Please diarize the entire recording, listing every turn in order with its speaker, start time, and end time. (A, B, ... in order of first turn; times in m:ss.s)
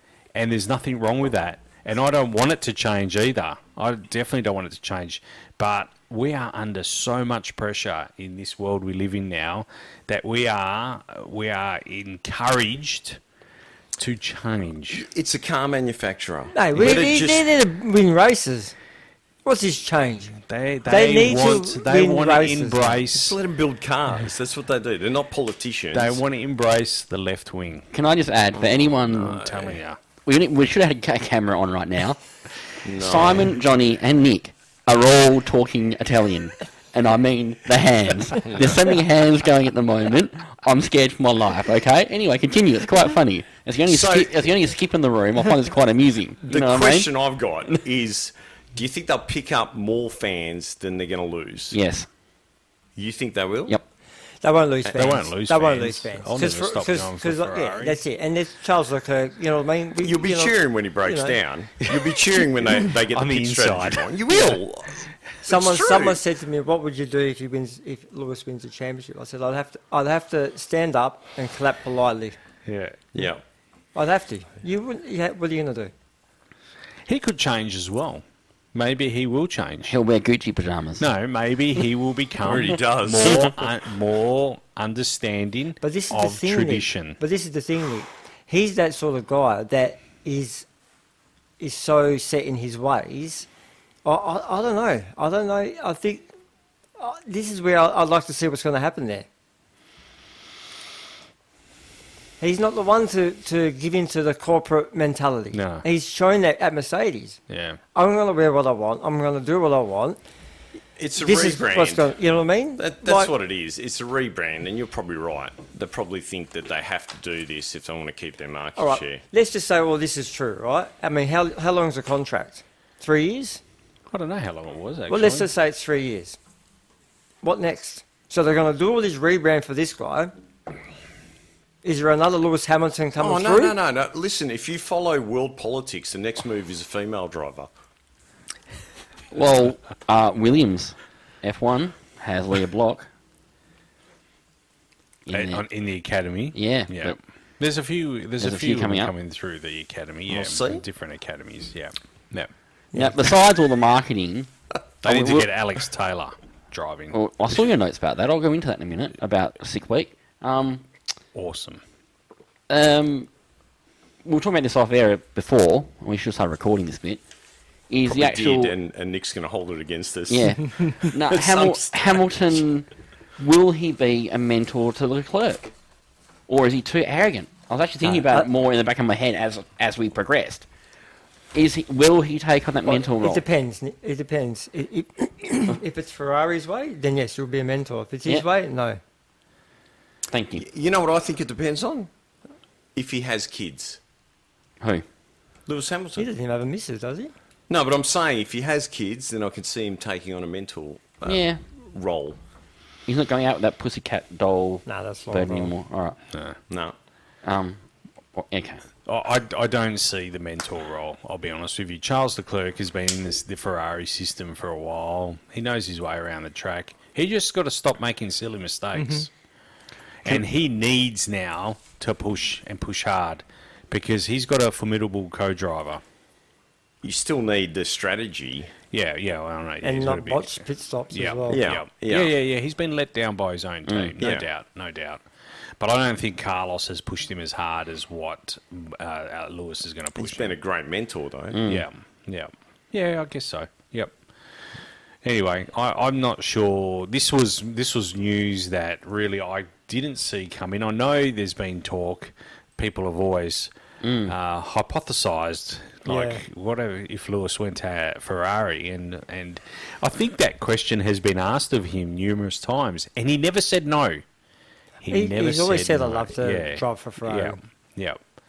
0:00.4-0:13.2 A
0:14.0-0:15.1 A
0:14.9-0:17.5 B
0:16.5-0:18.8 C
0:19.4-0:23.0 C
0:20.4-0:23.4 A
0:23.1-0:26.2 B
0:25.9-0:27.9 A
0:27.9-0:29.5 D
0:28.6-0:29.8 B
0:29.2-0:30.0 A
0:30.3-0:32.2 D
0:32.8-0:33.5 B
0:33.0-0:47.1 D
0:38.4-0:38.8 B
0:43.9-0:44.4 B
0:46.5-0:51.8 B
0:51.7-0:52.1 D
0:53.0-0:53.8 B
0:54.4-1:01.4 C
0:55.0-0:58.0 A
1:00.0-1:06.2 B
1:02.0-1:05.1 A
1:05.4-1:12.4 C
1:12.7-1:13.3 A
1:13.1-1:13.4 B
1:14.0-1:15.9 C
1:17.1-1:20.0 A
1:19.9-1:21.1 D
1:21.0-1:27.2 A
1:22.4-1:23.7 B
1:25.8-1:30.7 C
1:31.6-1:33.5 C
1:34.0-1:36.3 C
1:37.0-1:39.3 C
1:42.4-1:47.4 C
1:45.5-1:45.8 A
1:47.5-1:47.8 A
1:48.0-1:50.2 C
1:51.0-1:52.1 B
1:51.2-1:53.3 C
1:52.8-1:59.2 B
1:58.8-2:03.6 C
2:04.1-2:05.5 A
2:05.1-2:06.4 C
2:07.4-2:10.3 C
2:11.8-2:13.8 C
2:13.2-2:17.7 B
2:19.3-2:23.1 D
2:25.3-2:25.6 D
2:25.3-2:32.5 A
2:26.5-2:27.2 D
2:28.4-2:29.1 D
2:30.3-2:30.8 B
2:33.0-2:34.5 D
2:35.0-2:37.2 A
2:35.0-2:35.5 D
2:37.1-2:40.8 D
2:41.4-2:41.8 A
2:42.7-2:43.3 D
2:44.2-2:47.2 D
2:47.9-2:48.8 D
2:48.1-2:52.6 B
2:50.3-2:52.9 D
2:53.4-2:55.7 D
2:56.5-3:00.7 D
2:58.0-2:58.5 C
3:01.5-3:03.4 D
3:02.9-3:09.0 C
3:10.3-3:10.6 D
3:10.6-3:12.1 B
3:13.0-3:14.0 B
3:15.7-3:16.3 B
3:16.2-3:17.3 C
3:17.7-3:22.4 B
3:21.2-3:21.6 D
3:23.1-3:26.2 D
3:24.9-3:25.7 C
3:26.3-3:26.6 A
3:26.7-3:27.0 B
3:27.4-3:27.8 D
3:28.4-3:28.8 D
3:29.1-3:39.3 A
3:39.0-3:39.3 C
3:40.2-3:46.0 A
3:47.0-3:48.7 B
3:48.9-3:55.2 A
3:49.8-3:51.7 C
3:51.5-3:52.3 B
3:53.9-3:54.2 D
3:54.2-3:54.5 B
3:55.8-4:00.6 A
4:00.2-4:01.6 B
4:01.5-4:01.8 D
4:01.7-4:04.2 A
4:05.2-4:13.7 A
4:14.0-4:14.3 D
4:14.3-4:24.2 A
4:16.1-4:16.4 C
4:25.0-4:28.2 A
4:25.1-4:27.6 C